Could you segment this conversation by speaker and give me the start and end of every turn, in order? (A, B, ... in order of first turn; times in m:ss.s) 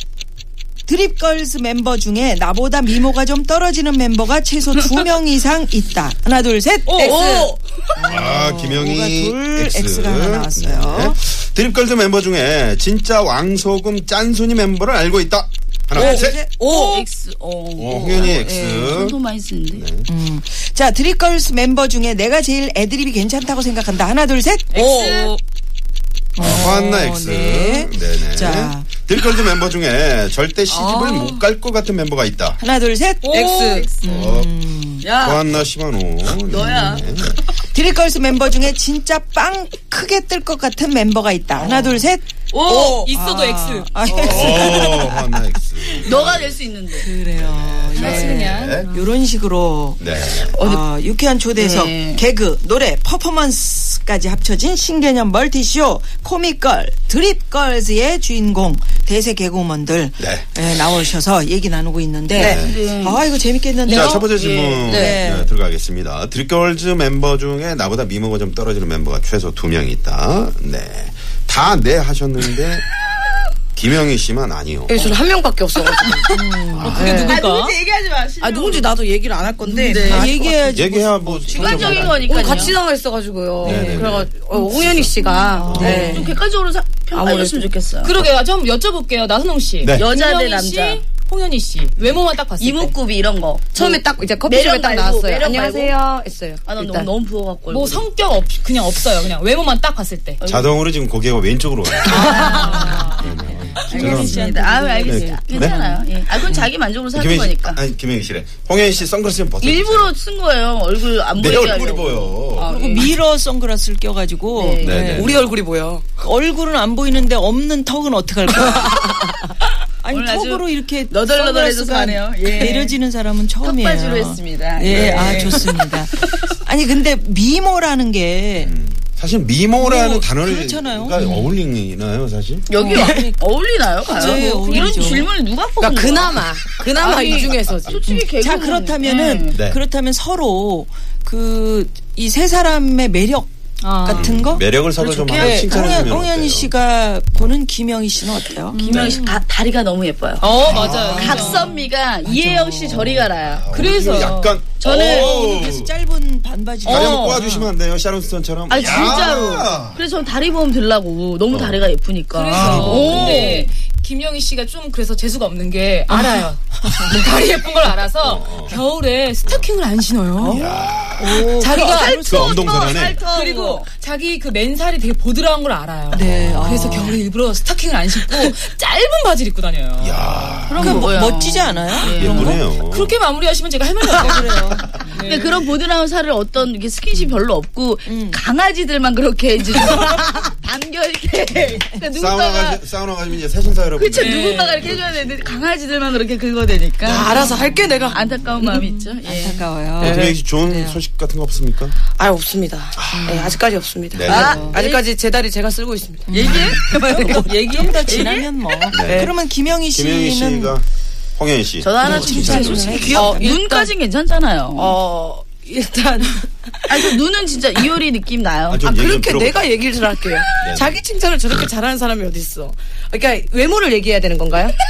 0:00.8-0:11.2 A
0:06.9-0:07.2 B
0:06.9-0:07.6 C
0:08.1-0:16.4 D
0:15.9-0:17.1 C
0:16.0-0:19.9 E
0:17.8-0:19.2 D
0:18.6-0:19.0 A
0:19.7-0:20.1 D
0:20.0-0:24.8 A
0:24.7-0:25.4 C
0:24.7-0:25.4 B
0:26.4-0:28.9 A
0:26.4-0:32.6 D
0:30.7-0:31.4 C
0:32.6-0:33.3 A
0:33.2-0:34.2 B
0:33.3-0:33.9 C
0:34.0-0:35.1 A
0:34.0-0:34.5 D
0:35.0-0:35.3 C
0:35.2-0:37.4 D
0:36.5-0:37.1 E
0:37.7-0:46.1 A
0:41.6-0:42.0 C
0:42.5-0:44.7 B
0:42.7-0:43.0 C
0:44.1-0:46.6 D
0:46.0-0:47.1 E
0:46.9-1:04.3 A
0:47.3-0:48.9 D
0:48.0-0:49.0 B
0:50.0-0:50.5 D
0:50.5-0:50.8 E
0:51.6-0:52.2 E
1:00.2-1:00.5 D
1:02.3-1:02.6 C
1:02.4-1:02.8 D
1:02.5-1:03.2 E
1:03.8-1:05.0 E
1:03.8-1:12.8 D
1:04.8-1:05.5 A
1:04.9-1:05.2 C
1:13.8-1:15.0 D
1:14.9-1:16.4 C
1:16.3-1:17.3 A
1:16.3-1:17.7 B
1:16.7-1:17.3 D
1:16.9-1:17.5 C
1:17.1-1:18.9 E
1:18.4-1:20.7 C
1:19.7-1:20.4 E
1:19.8-1:22.6 A
1:20.7-1:22.7 D
1:21.5-1:22.8 E
1:21.6-1:26.4 C
1:23.6-1:26.2 D
1:23.7-1:24.0 A
1:25.2-1:28.2 E
1:25.6-1:26.2 A
1:25.8-1:26.2 B
1:27.1-1:27.7 C
1:28.0-1:32.9 B
1:29.9-1:31.0 E
1:32.6-1:35.9 E
1:33.7-1:37.1 C
1:36.6-1:38.0 E
1:37.7-1:40.4 B
1:40.4-1:40.9 E
1:40.5-1:44.5 D
1:42.1-1:43.4 B
1:42.1-1:43.2 E
1:42.2-1:46.6 A
1:43.9-1:47.8 E
1:45.0-1:45.8 D
1:47.1-1:50.1 D
1:49.6-1:52.7 E
1:51.3-1:52.7 D
1:52.6-1:53.1 C
1:52.6-1:55.4 A
1:54.5-1:55.2 E
1:54.8-1:55.4 D
1:55.1-1:56.2 C
1:56.2-1:59.2 A
2:00.0-2:08.7 A
2:00.1-2:02.9 E
2:03.6-2:05.6 E
2:04.9-2:05.6 D
2:08.6-2:12.7 D
2:09.8-2:11.2 A
2:12.7-2:19.6 E
2:12.8-2:13.5 A
2:14.0-2:15.3 A
2:15.8-2:18.0 C
2:18.1-2:23.5 A
2:19.5-2:19.8 D
2:23.8-2:24.3 B
2:24.0-2:24.6 A
2:24.1-2:26.7 D
2:25.0-2:25.4 E
2:25.1-2:25.6 C
2:25.4-2:28.8 A
2:28.7-2:29.3 B
2:28.7-2:33.7 E
2:28.9-2:29.2 D
2:30.4-2:31.8 B
2:30.6-2:31.4 D
2:30.7-2:31.7 A
2:32.2-2:33.2 A
2:33.4-2:35.9 D
2:33.7-2:34.6 B
2:34.8-2:35.3 E
2:34.8-2:37.7 A
2:36.8-2:40.0 D
2:36.9-2:37.4 B
2:38.7-2:43.7 E
2:38.9-2:39.2 B
2:41.5-2:41.9 D
2:42.3-2:50.6 B
2:42.5-2:43.6 D
2:46.9-2:47.1 A
2:48.2-2:48.8 D
2:49.4-2:49.7 D
2:50.4-2:52.9 A
2:50.4-2:51.5 D
2:51.6-2:52.4 B
2:51.7-2:53.7 E
2:52.2-2:53.2 D
2:53.2-3:00.4 B
2:56.1-2:57.1 D
2:56.1-2:57.2 A
3:00.0-3:01.1 D
3:00.7-3:02.6 E
3:00.8-3:02.5 A
3:02.0-3:03.2 D
3:02.3-3:05.6 B
3:04.2-3:05.2 A
3:05.1-3:12.8 E
3:08.1-3:08.4 A
3:11.6-3:15.7 D
3:13.9-3:19.7 E
3:14.2-3:14.9 B
3:17.0-3:17.4 D
3:17.1-3:18.8 C
3:17.3-3:21.0 A
3:20.0-3:22.0 D
3:20.0-3:20.3 C
3:22.2-3:28.4 C
3:23.0-3:23.3 D
3:23.1-3:23.6 A
3:24.1-3:24.8 D
3:24.2-3:25.0 E
3:24.2-3:24.8 A
3:26.3-3:30.7 A
3:26.4-3:26.8 E
3:28.0-3:28.5 E
3:28.9-3:29.3 D
3:28.9-3:29.3 C
3:29.9-3:30.8 D
3:31.4-3:33.3 D
3:31.8-3:35.0 E
3:32.0-3:33.5 A
3:33.1-3:33.9 C
3:34.7-3:37.2 C
3:36.9-3:38.8 E
3:38.7-3:39.8 D
3:38.8-3:44.7 C
3:40.6-3:41.0 D